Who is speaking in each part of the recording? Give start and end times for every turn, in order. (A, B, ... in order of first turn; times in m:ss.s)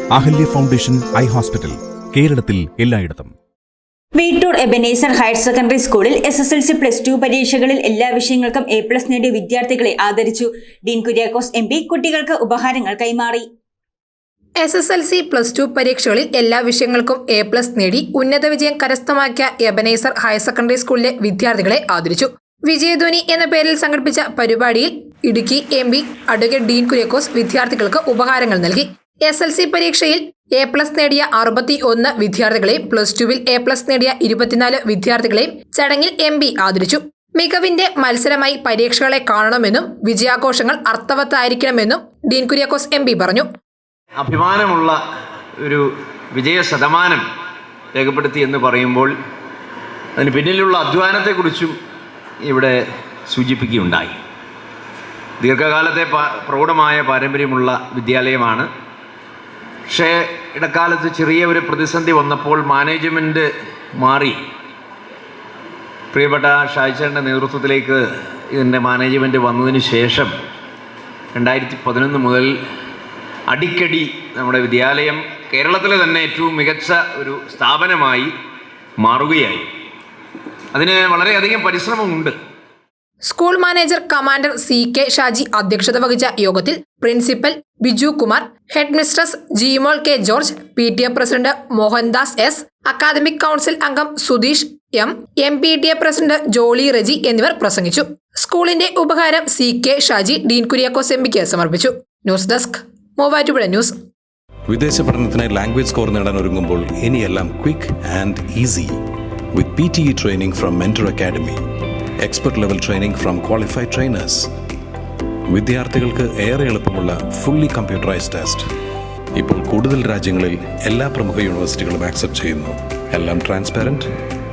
0:00.1-0:03.3 A
0:04.2-0:13.5 B
0:14.6-0:43.5 C
0:44.2-0:45.0 D
0:45.6-0:47.2 D
0:47.9-0:49.1 D
0:50.2-0:51.8 D
0:52.4-0:52.8 D
0:53.3-0:54.2 D
0:55.4-0:58.7 D
0:59.9-1:03.5 D
1:04.0-1:04.4 D
1:06.1-1:10.3 D
1:11.4-1:12.6 D
1:13.5-1:18.3 D
1:19.0-1:19.7 D
1:20.7-1:22.4 D
1:23.2-1:43.9 C
1:44.7-1:49.0 E
1:49.5-1:51.6 E
1:52.2-1:54.5 E
1:55.5-1:58.7 E
1:59.4-2:04.1 E